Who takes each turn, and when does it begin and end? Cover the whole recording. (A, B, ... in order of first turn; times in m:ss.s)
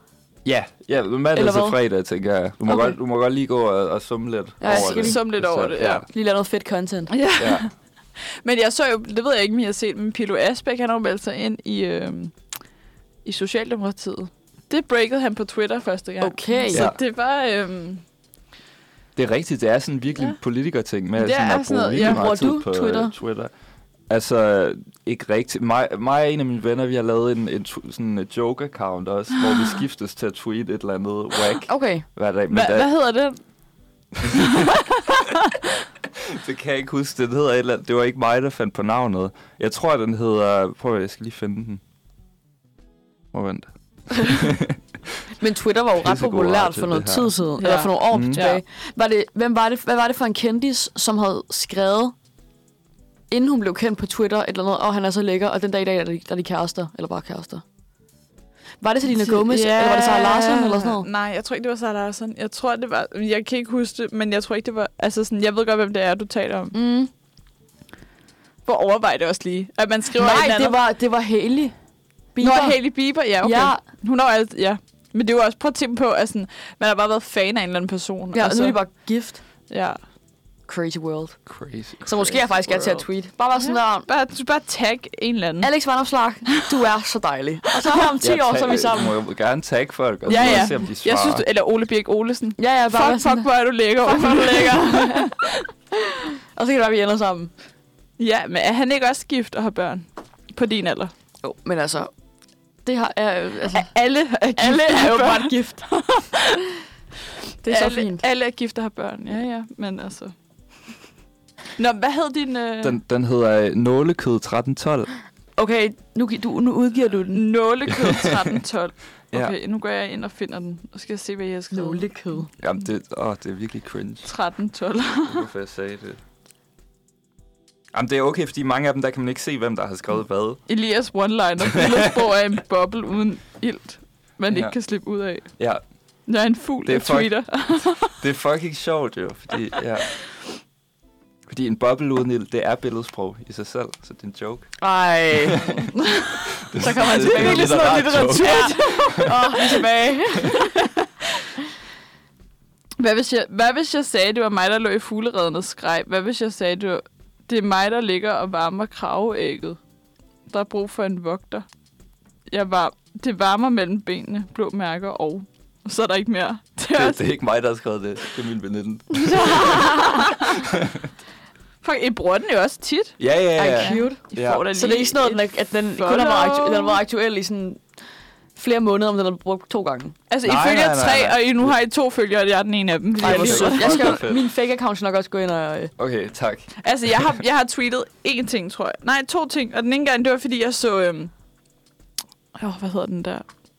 0:00.4-0:06.0 A
0:01.3-0:01.8 B
0:02.7-0:02.9 B
0:04.6-0:05.2 B
0:04.6-0:06.0 C
0:06.1-0:07.1 B
0:07.1-0:12.3 C
0:07.4-0:07.6 A
0:13.2-0:18.0 C
0:16.2-0:16.9 B
0:16.7-0:17.0 A
0:19.1-0:23.5 A
0:21.2-0:22.2 C
0:22.0-0:23.1 B
0:24.1-0:32.9 A
0:31.7-0:32.0 B
0:32.5-0:33.4 C
0:34.2-0:34.5 A
0:34.3-0:35.5 C
0:36.1-0:41.8 A
0:43.3-0:45.2 A
0:45.4-0:52.1 B
0:46.0-0:47.3 A
0:47.6-0:48.6 C
0:48.1-0:48.4 A
0:53.3-0:57.6 B
0:58.8-1:01.1 B
0:59.1-1:06.8 C
1:06.7-1:07.1 B
1:08.6-1:10.8 C
1:10.2-1:11.8 B
1:12.3-1:13.8 B
1:12.4-1:18.8 C
1:18.3-1:19.4 B
1:19.7-1:20.0 C
1:20.7-1:21.5 B
1:21.5-1:22.4 A
1:22.0-1:24.1 B
1:22.6-1:23.0 C
1:23.6-1:25.7 C
1:25.6-1:29.2 B
1:28.2-1:31.4 A
1:30.3-1:35.6 C
1:30.3-1:30.7 B
1:32.6-1:33.5 B
1:34.0-1:35.4 B
1:35.9-1:37.5 B
1:38.2-1:41.1 C
1:41.4-1:42.1 B
1:42.8-1:43.9 B
1:43.6-1:46.6 C
1:44.6-1:45.9 B
1:47.6-1:48.2 B
1:47.6-1:50.3 C
1:51.8-1:53.0 C
1:52.8-1:55.1 A
1:55.6-1:57.4 B
1:57.3-2:02.1 C
1:57.9-1:58.5 A
2:01.7-2:02.5 B
2:02.6-2:04.3 A
2:04.2-2:05.4 C
2:05.3-2:06.2 A
2:07.9-2:10.6 A
2:10.7-2:15.5 C
2:14.5-2:14.7 A
2:15.6-2:15.8 A
2:16.3-2:18.2 C
2:16.9-2:17.4 A
2:18.0-2:20.1 A
2:21.5-2:24.8 A
2:24.8-2:25.8 B
2:25.3-2:25.9 A
2:25.9-2:29.8 C
2:26.5-2:29.3 A
2:26.8-2:30.6 B
2:30.4-2:31.5 C
2:33.0-2:39.8 C
2:40.5-2:41.6 C
2:42.5-2:47.2 C
2:46.9-2:51.1 A
2:49.1-2:50.7 C
2:51.8-2:53.2 C
2:53.2-2:54.6 A
2:53.6-2:54.2 B
2:53.7-2:57.0 C
2:54.7-2:57.8 B
2:58.6-3:00.2 B
3:00.3-3:04.2 C
3:00.4-3:01.7 A
3:03.2-3:04.4 A
3:03.2-3:05.9 B
3:06.0-3:07.4 A
3:06.8-3:11.3 C
3:12.6-3:13.5 C